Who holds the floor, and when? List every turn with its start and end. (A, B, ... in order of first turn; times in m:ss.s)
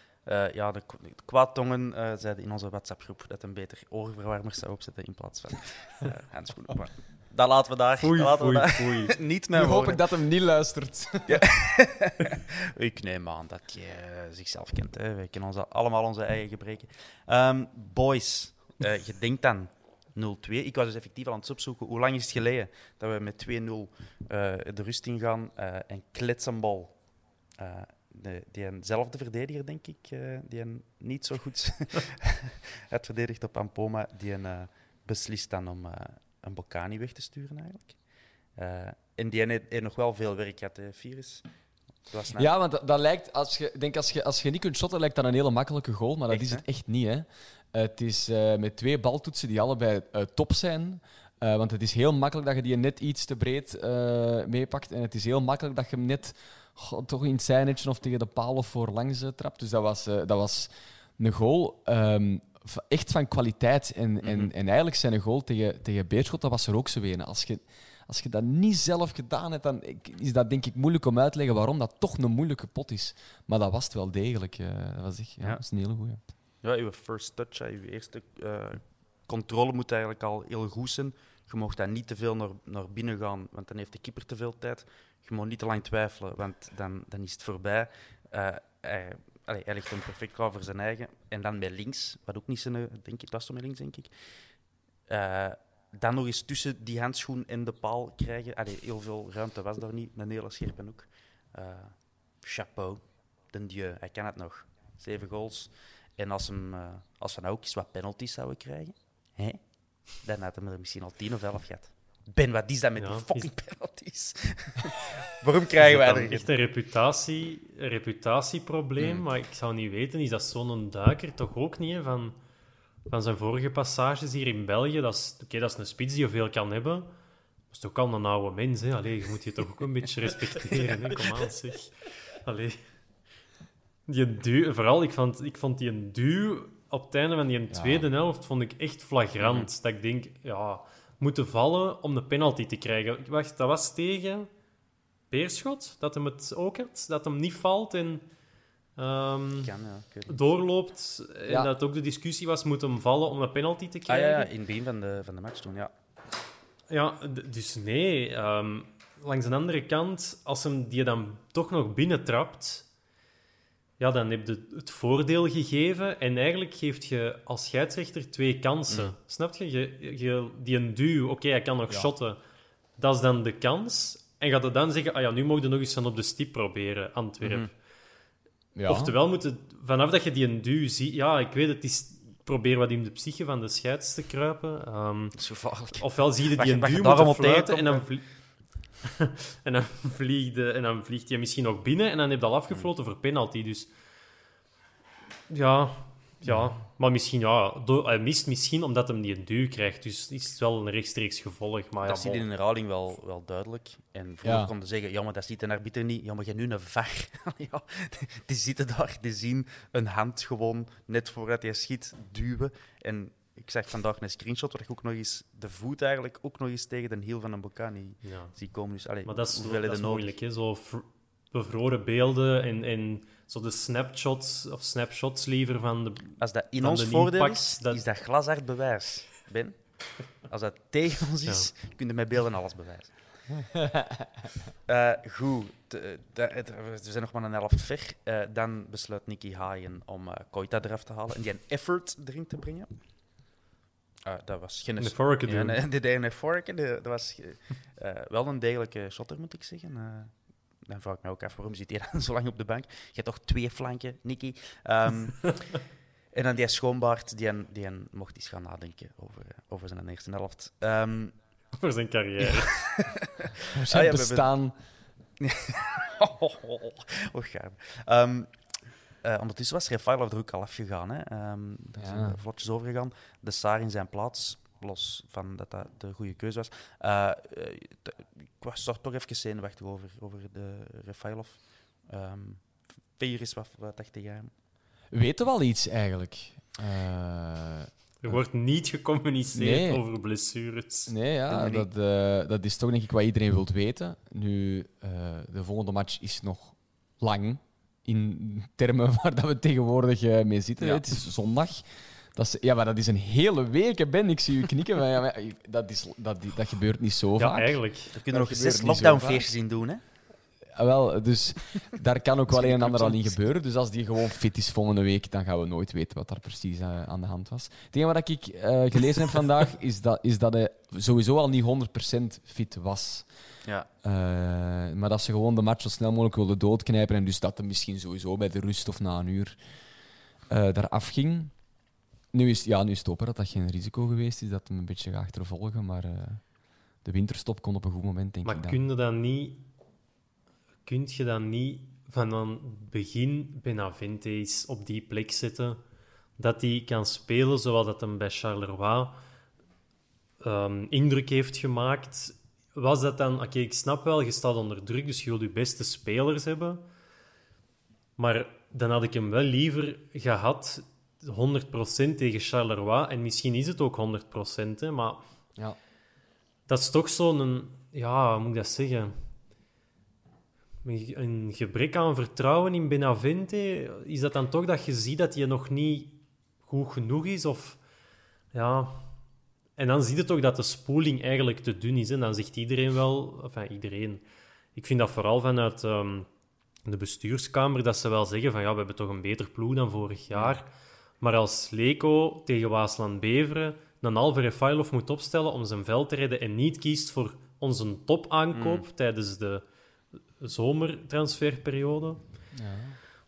0:00.2-0:10.0 A
0:08.0-0:09.2 B
0:09.5-0:11.5 C
0:11.3-0:27.0 A
0:27.6-0:38.0 A
0:38.6-0:41.4 A
0:42.1-0:42.5 A
0:42.4-1:16.2 C
0:46.3-0:46.6 A
1:04.2-1:04.5 A
1:16.6-1:34.1 A
1:35.1-1:56.5 A
1:53.0-1:53.5 B
1:55.8-2:02.4 B
2:03.1-2:07.1 B
2:07.7-2:12.8 B
2:14.1-2:24.5 B
2:17.7-2:18.1 C
2:19.4-2:19.7 A
2:25.3-2:28.2 B
2:29.0-2:29.7 B
2:29.6-2:30.4 A
2:30.3-2:34.5 B
2:34.1-2:35.9 A
2:36.9-2:42.9 B
2:44.0-2:52.4 B
2:53.0-2:57.7 B
2:57.4-2:57.7 A
2:58.8-2:59.2 C
2:58.9-3:05.4 B
3:05.4-3:08.1 A
3:06.0-3:08.2 B
3:09.1-3:13.9 B
3:15.5-3:22.4 B
3:22.0-3:40.3 A
3:24.4-3:24.7 C
3:38.2-3:38.6 B
3:39.3-3:48.0 B
3:46.4-3:49.8 A
3:50.4-3:53.2 A
3:53.6-3:54.2 C
3:54.9-4:02.9 A
4:04.3-4:10.3 A
4:05.0-4:05.8 B
4:10.9-4:15.8 A
4:16.3-4:21.4 A
4:21.8-4:22.8 B
4:22.4-4:24.5 A
4:23.7-4:24.7 C
4:25.4-4:28.5 A
4:29.2-4:44.5 A
4:32.0-4:32.4 C
4:45.1-4:48.4 C
4:48.2-4:51.1 B
4:49.5-4:50.0 C
4:51.1-5:09.5 C
4:51.5-4:51.9 A
5:07.4-5:08.1 B
5:08.1-5:10.0 A
5:10.7-5:23.3 C
5:12.5-5:13.3 A
5:24.0-5:29.6 C
5:30.5-5:31.6 C
5:32.3-5:36.4 C
5:37.0-5:38.8 C
5:38.4-5:39.6 B
5:40.9-5:45.8 B
5:46.4-5:49.2 B
5:50.4-5:56.8 B
5:58.2-6:05.2 B
6:06.7-6:09.1 B
6:10.8-6:17.8 B
6:18.5-6:19.1 B
6:19.8-6:24.2 B
6:24.8-6:26.3 B
6:26.8-6:30.7 B
6:31.2-6:39.6 B
6:38.5-6:38.9 A
6:40.4-6:42.2 B
6:42.5-6:43.0 C